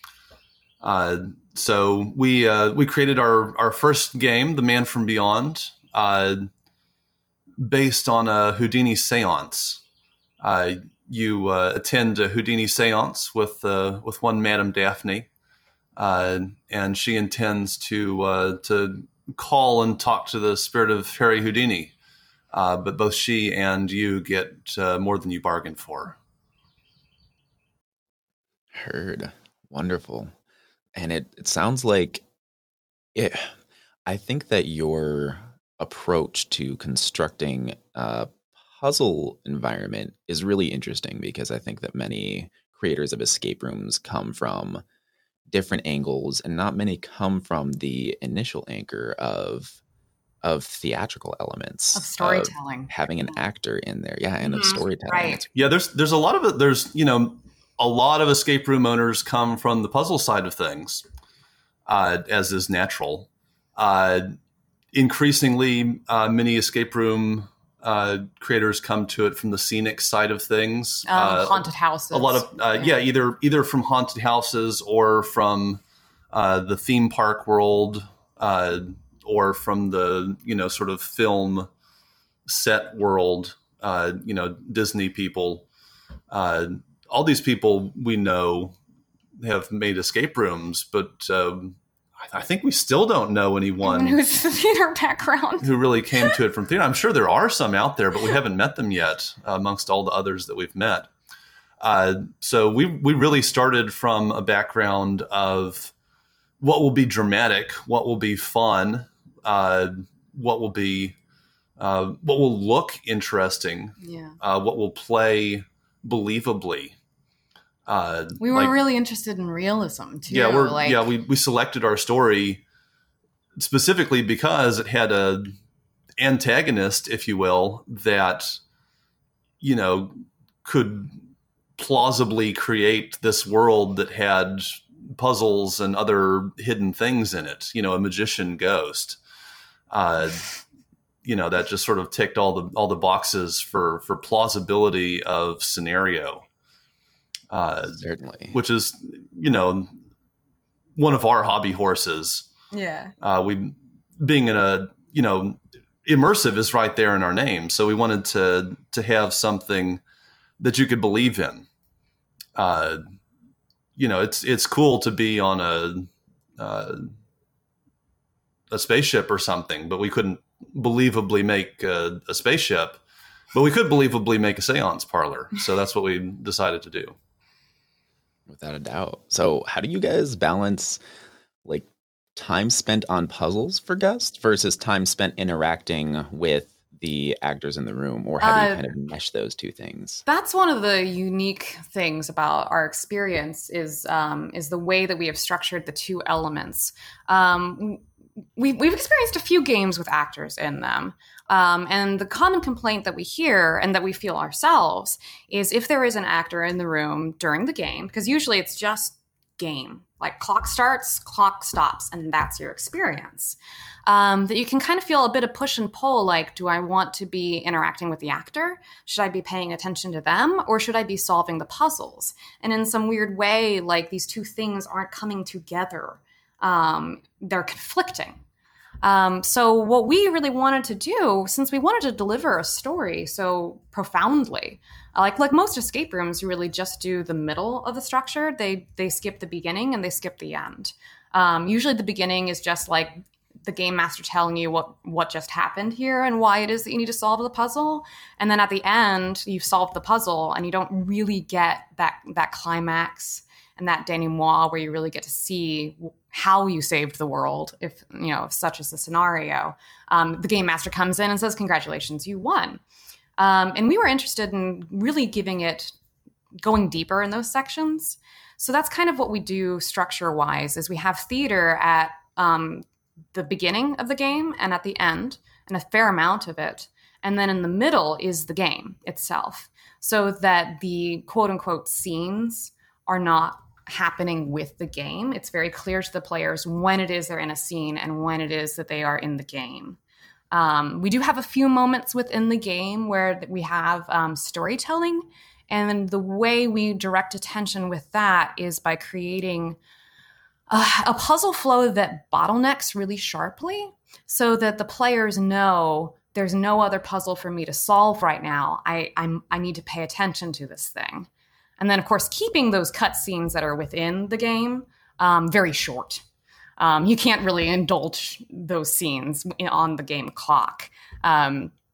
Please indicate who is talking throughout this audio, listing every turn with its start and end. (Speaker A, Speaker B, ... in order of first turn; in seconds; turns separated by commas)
Speaker A: 0.8-6.5, Speaker A: 7.6-9.8, Speaker A: 10.4-15.3, Speaker A: 16.0-21.9, Speaker A: 22.5-26.2, Speaker B: 28.7-30.3, Speaker B: 31.0-32.2, Speaker B: 33.1-33.5, Speaker B: 34.1-44.8, Speaker B: 45.5-49.8, Speaker B: 50.4-55.5, Speaker C: 51.9-52.9, Speaker C: 54.4-55.4, Speaker A: 55.5-61.0, Speaker A: 61.9-64.4, Speaker A: 64.9-75.8, Speaker C: 71.1-73.0, Speaker A: 76.3-81.7, Speaker A: 82.5-85.7, Speaker A: 86.3-88.8, Speaker A: 89.4-94.2, Speaker C: 93.8-96.4, Speaker A: 95.6-101.1, Speaker A: 101.8-105.9, Speaker A: 106.6-111.2, Speaker A: 111.8-117.0, Speaker C: 114.0-114.4, Speaker A: 117.9-118.7, Speaker C: 118.4-121.1, Speaker A: 120.3-122.6, Speaker A: 123.6-125.5, Speaker A: 126.2-128.6, Speaker A: 129.6-131.2, Speaker A: 131.8-139.2, Speaker A: 139.9-140.5, Speaker A: 141.2-146.5, Speaker A: 147.5-148.0, Speaker B: 148.0-148.6, Speaker A: 148.5-149.9, Speaker A: 151.0-152.5, Speaker C: 152.7-153.1, Speaker A: 153.2-160.0, Speaker A: 160.6-161.7, Speaker A: 162.6-163.0, Speaker A: 164.0-167.1, Speaker A: 168.7-173.0, Speaker A: 173.5-177.2, Speaker B: 178.5-181.0, Speaker B: 181.7-190.2, Speaker C: 188.4-188.9, Speaker C: 190.3-198.0, Speaker C: 198.6-228.4, Speaker C: 229.0-262.8, Speaker C: 263.4-265.9, Speaker C: 266.6-290.0, Speaker C: 290.5-299.8, Speaker C: 300.7-311.3, Speaker C: 311.8-316.2, Speaker C: 316.8-321.7